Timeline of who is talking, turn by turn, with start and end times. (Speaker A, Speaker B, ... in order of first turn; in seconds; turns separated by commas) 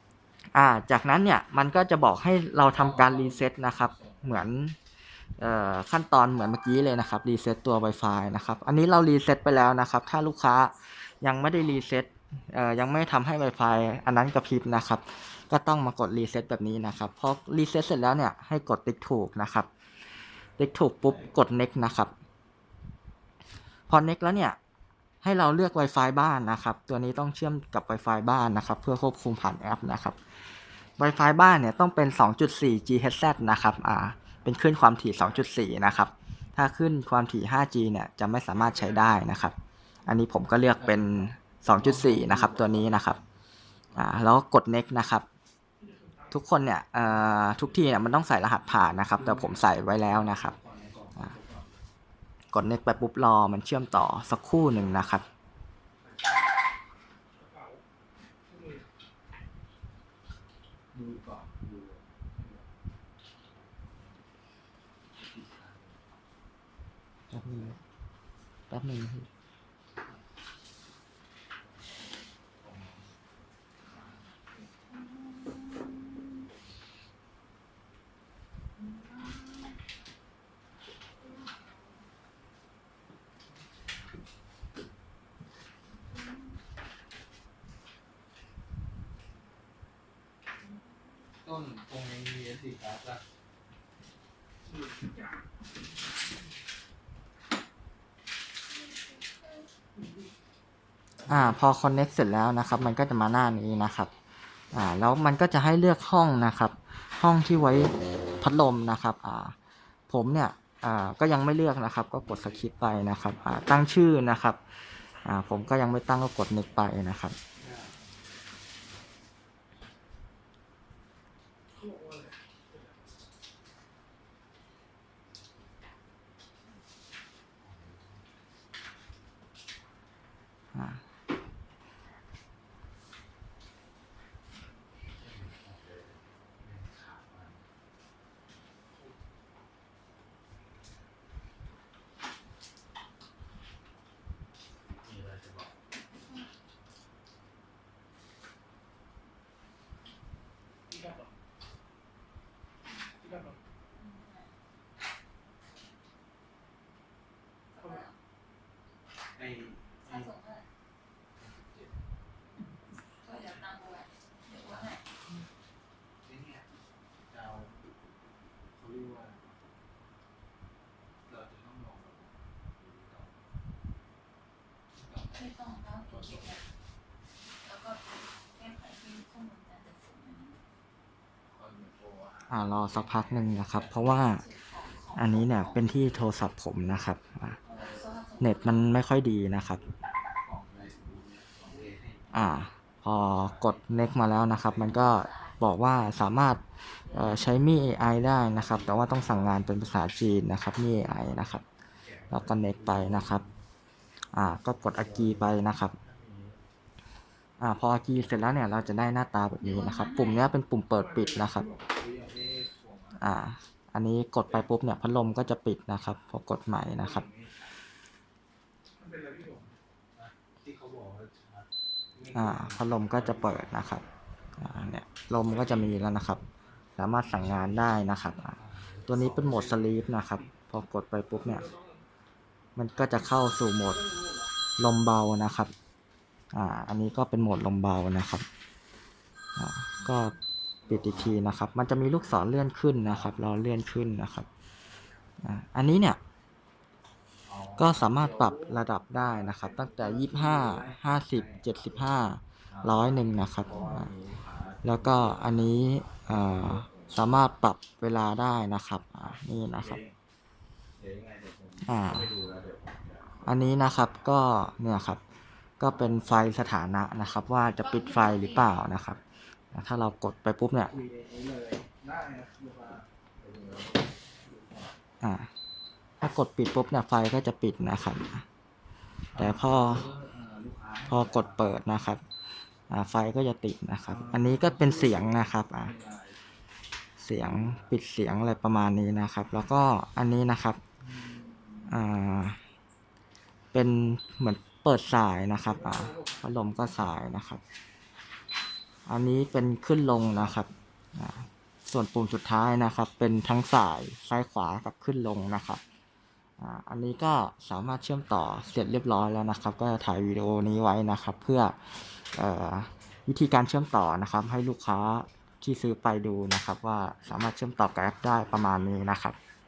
Speaker A: 0.6-4.8, Speaker B: 2.7-3.4, Speaker A: 5.4-19.7, Speaker A: 20.6-22.1, Speaker A: 23.9-24.6, Speaker A: 25.2-30.2, Speaker A: 31.0-39.5, Speaker A: 40.1-43.2, Speaker B: 40.8-43.2, Speaker A: 43.9-45.2, Speaker A: 46.3-50.6, Speaker B: 49.1-51.7, Speaker A: 52.5-55.2, Speaker B: 60.9-62.7, Speaker B: 65.1-66.1, Speaker A: 67.3-67.8, Speaker A: 68.7-69.3, Speaker B: 72.6-73.1, Speaker B: 91.4-93.2, Speaker A: 101.2-104.1, Speaker A: 104.7-109.6, Speaker A: 110.1-114.6, Speaker A: 115.2-117.4, Speaker B: 127.6-128.2, Speaker A: 130.8-131.0, Speaker B: 135.2-137.6, Speaker B: 145.0-145.8, Speaker C: 153.9-154.5, Speaker C: 157.7-158.2, Speaker B: 159.4-160.3, Speaker C: 160.0-160.7, Speaker B: 161.4-162.0, Speaker C: 163.1-165.1, Speaker B: 164.6-164.9, Speaker B: 166.2-166.7, Speaker B: 167.3-167.8, Speaker B: 168.8-169.4, Speaker B: 171.2-173.5, Speaker B: 174.9-176.7, Speaker C: 175.3-176.7, Speaker C: 177.6-180.6, Speaker B: 181.5-183.9, Speaker A: 182.5-184.4, Speaker C: 184.0-185.9, Speaker A: 185.1-187.6, Speaker C: 187.6-188.9, Speaker A: 188.4-189.9, Speaker B: 190.4-192.3, Speaker A: 192.3-201.7, Speaker B: 193.2-193.9, Speaker B: 194.5-194.9, Speaker C: 194.7-195.7, Speaker C: 197.1-197.5, Speaker B: 198.5-199.5, Speaker B: 202.0-203.6, Speaker A: 202.3-203.4, Speaker A: 204.3-206.0, Speaker B: 204.9-206.6, Speaker A: 207.6-211.7, Speaker C: 209.6-210.5, Speaker B: 211.9-213.2, Speaker A: 213.2-217.3, Speaker B: 216.9-217.7, Speaker B: 220.2-223.8, Speaker A: 222.3-224.1, Speaker A: 224.6-226.4, Speaker A: 226.9-231.7, Speaker B: 227.4-227.7, Speaker B: 228.4-230.2, Speaker A: 232.8-234.1, Speaker A: 234.8-235.7, Speaker A: 236.5-238.4, Speaker A: 239.6-240.3, Speaker A: 240.9-244.5, Speaker B: 240.9-241.3, Speaker A: 245.4-246.2, Speaker B: 247.4-252.1, Speaker A: 247.8-254.1, Speaker B: 252.7-257.1, Speaker A: 254.8-260.0, Speaker B: 259.7-260.2, Speaker B: 261.0-263.5, Speaker A: 261.8-262.4, Speaker A: 263.4-265.2, Speaker A: 265.8-269.2, Speaker C: 267.8-268.7, Speaker A: 269.7-270.9, Speaker B: 270.8-274.9, Speaker A: 275.2-275.5, Speaker A: 276.2-278.4, Speaker B: 279.3-281.8, Speaker A: 279.3-280.1, Speaker A: 281.1-282.2, Speaker A: 282.9-285.9, Speaker B: 284.1-286.4, Speaker A: 287.2-290.8, Speaker B: 287.4-287.9, Speaker B: 291.1-291.9, Speaker A: 291.9-292.6, Speaker A: 293.7-297.6, Speaker B: 295.8-296.4, Speaker A: 299.1-305.8, Speaker A: 306.6-319.4